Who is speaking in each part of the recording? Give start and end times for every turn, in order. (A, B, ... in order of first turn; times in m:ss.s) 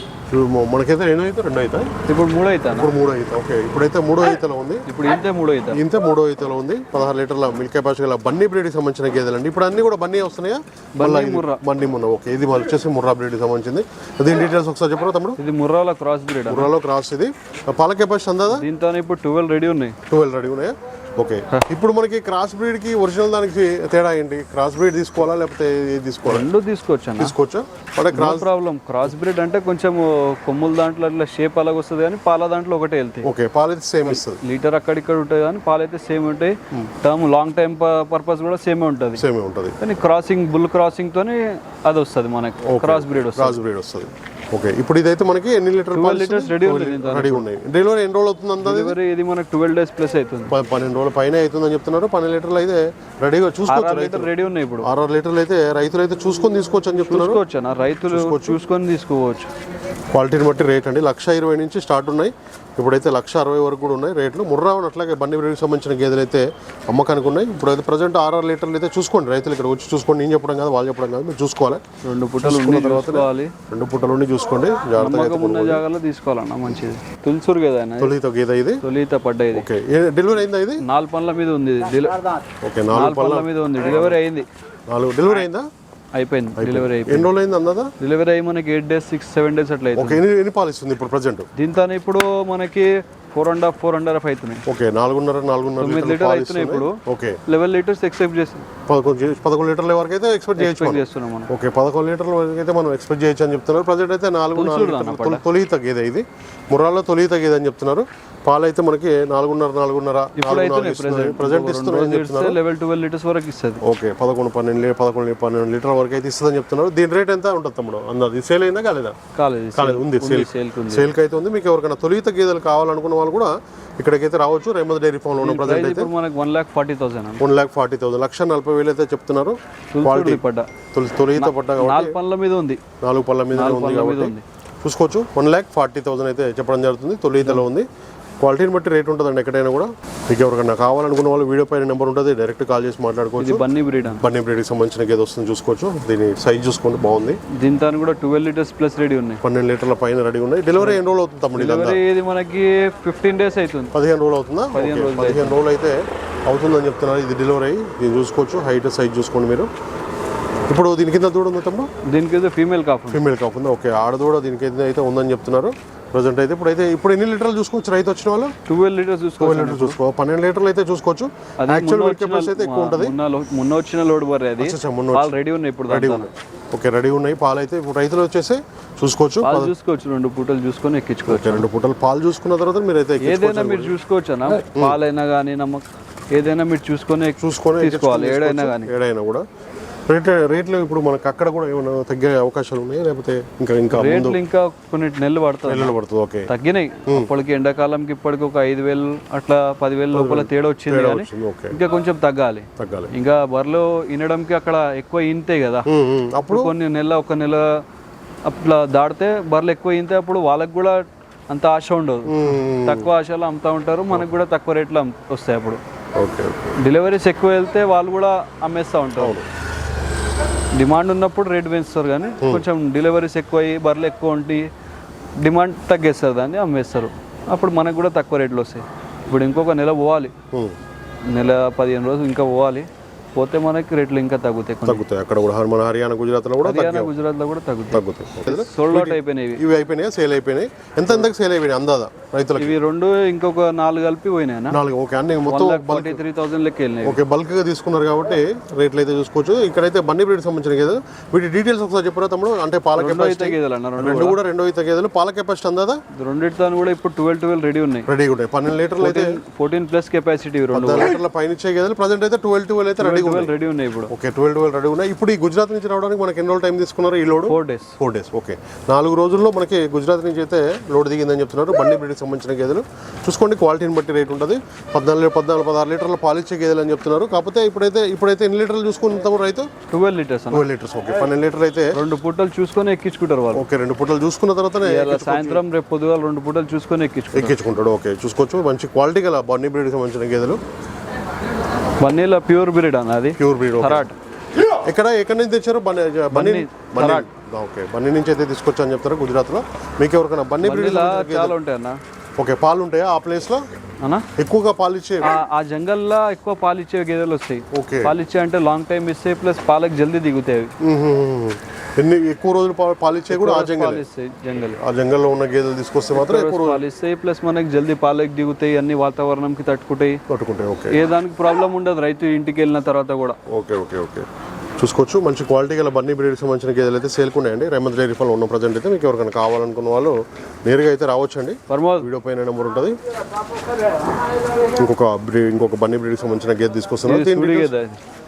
0:00.3-0:01.9 A
0:02.1-0:02.9 B
0:02.8-0:04.8 A
0:04.9-0:05.8 B
0:05.7-0:15.4 A
0:11.0-0:11.6 B
0:15.4-0:16.7 B
0:16.5-0:18.6 A
0:18.5-0:20.0 B
0:20.1-0:26.5 A
0:26.3-0:27.3 B
0:27.2-0:28.5 A
0:28.1-0:33.3 B
0:33.2-0:34.4 A
0:34.0-0:39.2 B
0:39.2-0:39.8 A
0:39.8-0:43.6 B
0:42.6-0:49.0 A
0:45.9-0:47.4 B
0:48.6-0:50.5 B
0:50.5-0:54.3 A
0:53.7-0:54.9 B
0:54.8-0:57.4 A
0:57.0-0:59.5 B
0:58.1-0:58.6 A
1:00.1-1:11.8 A
1:12.0-1:13.5 B
1:12.4-1:15.8 A
1:15.0-1:18.1 B
1:18.0-1:18.8 A
1:18.8-1:19.7 B
1:19.5-1:20.8 A
1:20.8-1:22.2 B
1:22.6-1:24.2 A
1:22.9-1:24.4 B
1:24.9-1:25.6 A
1:26.1-1:27.3 B
1:26.6-1:27.9 A
1:28.0-1:30.2 B
1:29.9-1:31.5 A
1:31.5-1:34.6 B
1:34.7-1:37.4 A
1:35.8-1:38.6 B
1:38.9-1:52.6 A
1:40.6-1:41.5 B
1:44.5-1:45.4 B
1:50.4-1:53.8 B
1:53.8-1:59.2 A
1:59.3-2:01.1 B
1:59.7-2:06.1 A
2:05.4-2:07.4 B
2:07.4-2:10.4 A
2:09.9-2:10.7 B
2:10.9-2:12.2 A
2:11.4-2:12.8 B
2:13.0-2:17.9 A
2:13.5-2:14.4 B
2:18.4-2:23.6 A
2:23.4-2:24.2 B
2:24.2-2:27.4 A
2:27.5-2:29.4 B
2:29.4-2:32.0 A
2:31.5-2:33.9 B
2:33.9-2:39.7 A
2:34.7-2:35.6 B
2:40.7-2:41.9 A
2:42.0-2:43.2 B
2:43.1-2:48.5 A
2:48.7-2:50.0 B
2:49.4-2:53.2 A
2:51.6-2:56.3 B
2:54.6-2:55.3 A
2:55.9-2:59.7 A
2:59.4-3:01.6 B
3:01.3-3:04.0 A
3:03.2-3:08.9 B
3:04.6-3:05.0 A
3:07.4-3:09.4 A
3:10.1-3:14.4 A
3:13.9-3:15.9 B
3:15.7-3:16.5 A
3:16.5-3:25.9 B
3:20.1-3:21.8 A
3:22.8-3:23.1 A
3:25.9-3:26.7 A
3:26.4-3:27.8 B
3:28.4-3:35.8 B
3:32.2-3:33.1 A
3:36.2-3:36.6 A
3:36.8-3:39.4 B
3:39.2-3:39.4 A
3:40.8-3:44.6 B
3:42.4-3:42.6 A
3:45.4-3:50.3 B
3:51.3-3:55.0 B
3:54.8-3:57.1 A
3:56.6-3:59.6 B
3:57.9-4:02.8 A
4:02.6-4:04.8 B
4:04.7-4:06.2 A
4:05.5-4:07.2 B
4:07.0-4:16.0 A
4:13.0-4:14.4 B
4:16.1-4:18.1 B
4:18.1-4:19.4 A
4:19.0-4:21.2 B
4:20.7-4:23.5 A
4:23.0-4:24.1 B
4:24.1-4:39.7 A
4:27.5-4:28.0 B
4:39.9-4:40.6 B
4:40.5-4:41.9 A
4:41.9-4:43.6 B
4:43.5-4:45.6 A
4:44.8-4:47.5 B
4:47.3-4:50.6 A
4:52.0-4:54.1 B
4:53.4-4:54.1 A
4:54.6-5:01.5 A
4:56.3-4:57.3 B
5:00.6-5:02.0 B
5:02.4-5:03.6 A
5:04.0-5:04.3 B
5:04.4-5:05.4 A
5:05.2-5:10.7 B
5:07.7-5:08.2 A
5:10.8-5:14.0 A
5:13.3-5:14.8 B
5:14.8-5:16.8 A
5:16.1-5:20.2 B
5:20.3-5:21.0 A
5:20.9-5:23.4 B
5:23.5-5:24.3 A
5:24.8-5:33.0 A
5:31.7-5:32.1 B
5:34.6-5:37.7 A
5:37.0-5:38.0 B